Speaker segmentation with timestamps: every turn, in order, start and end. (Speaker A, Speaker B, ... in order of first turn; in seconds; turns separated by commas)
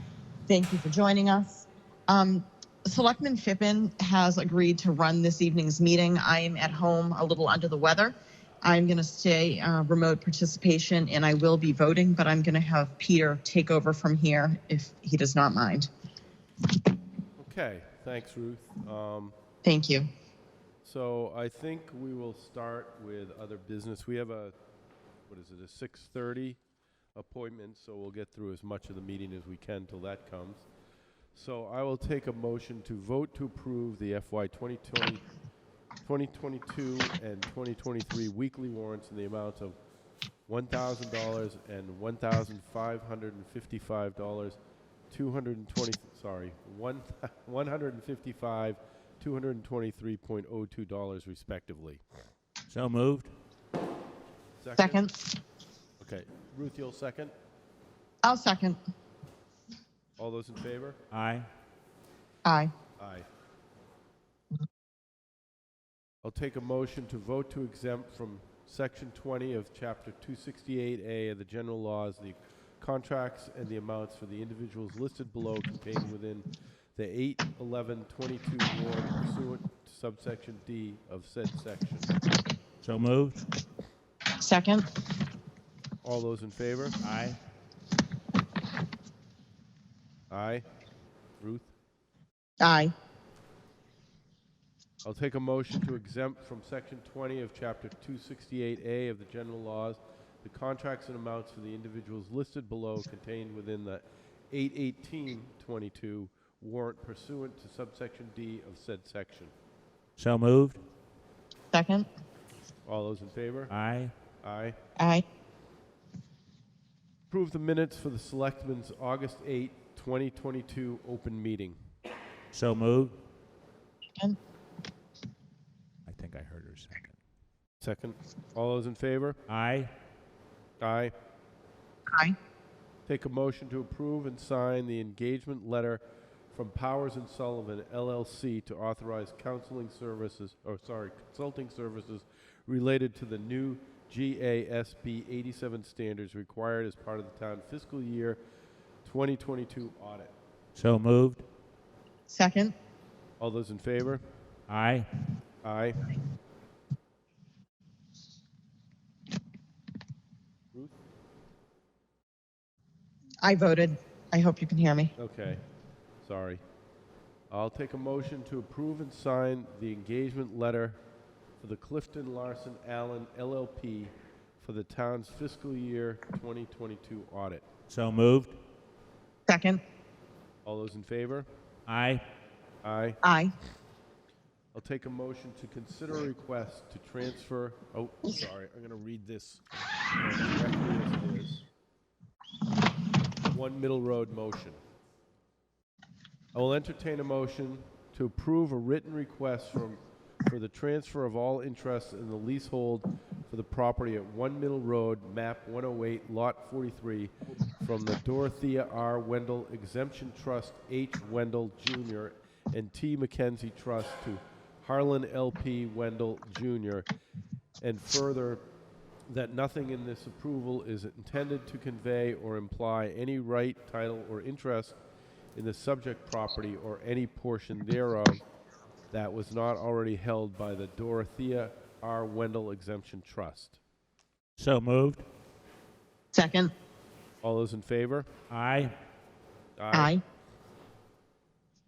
Speaker A: 0.5-15.9, Speaker B: 17.4-19.4, Speaker A: 19.6-20.1, Speaker B: 20.8-24.6, Speaker B: 25.3-26.6, Speaker B: 27.1-30.7, Speaker B: 31.3-35.2, Speaker B: 36.0-39.8, Speaker B: 40.5-44.6, Speaker B: 45.1-52.0, Speaker C: 52.7-53.3, Speaker B: 54.6-55.1, Speaker A: 54.8-55.1, Speaker B: 56.0-57.3, Speaker A: 58.2-58.8, Speaker B: 60.2-61.0, Speaker C: 61.1-61.5, Speaker A: 62.4-62.7, Speaker B: 62.9-63.3, Speaker B: 66.2-82.1, Speaker C: 82.8-83.4, Speaker A: 84.3-84.9, Speaker B: 86.0-87.0, Speaker C: 87.0-87.4, Speaker B: 90.3-90.6, Speaker B: 91.4-91.7, Speaker A: 92.6-92.9, Speaker B: 95.0-109.5, Speaker C: 110.2-110.8, Speaker A: 111.7-112.1, Speaker B: 112.9-113.7, Speaker C: 113.7-114.1, Speaker B: 114.4-114.8, Speaker A: 115.0-115.2, Speaker B: 117.3-121.9, Speaker C: 122.5-123.2, Speaker C: 126.1-127.2, Speaker B: 127.8-129.4, Speaker C: 129.5-129.9, Speaker B: 130.8-131.1, Speaker A: 132.1-132.4, Speaker B: 133.1-136.0, Speaker B: 136.5-148.4, Speaker B: 149.0-150.3, Speaker C: 150.8-151.4, Speaker A: 152.3-152.8, Speaker B: 153.4-154.2, Speaker C: 154.7-155.1, Speaker B: 155.6-156.0, Speaker A: 163.4-165.1, Speaker B: 165.2-165.6, Speaker B: 166.2-166.6, Speaker B: 167.5-171.0, Speaker B: 171.6-177.6, Speaker C: 177.9-178.6, Speaker A: 179.5-179.8, Speaker B: 180.7-181.5, Speaker C: 181.9-182.2, Speaker B: 182.8-183.2, Speaker A: 183.2-183.5, Speaker B: 184.7-189.6, Speaker B: 190.2-191.6, Speaker B: 193.5-194.8, Speaker B: 196.5-217.1, Speaker B: 217.8-218.6, Speaker B: 219.3-225.0, Speaker B: 225.6-228.4, Speaker B: 229.1-233.8, Speaker C: 234.6-235.2, Speaker A: 236.3-236.7, Speaker B: 237.4-238.3, Speaker C: 238.5-238.9, Speaker B: 239.8-240.2, Speaker A: 239.9-240.2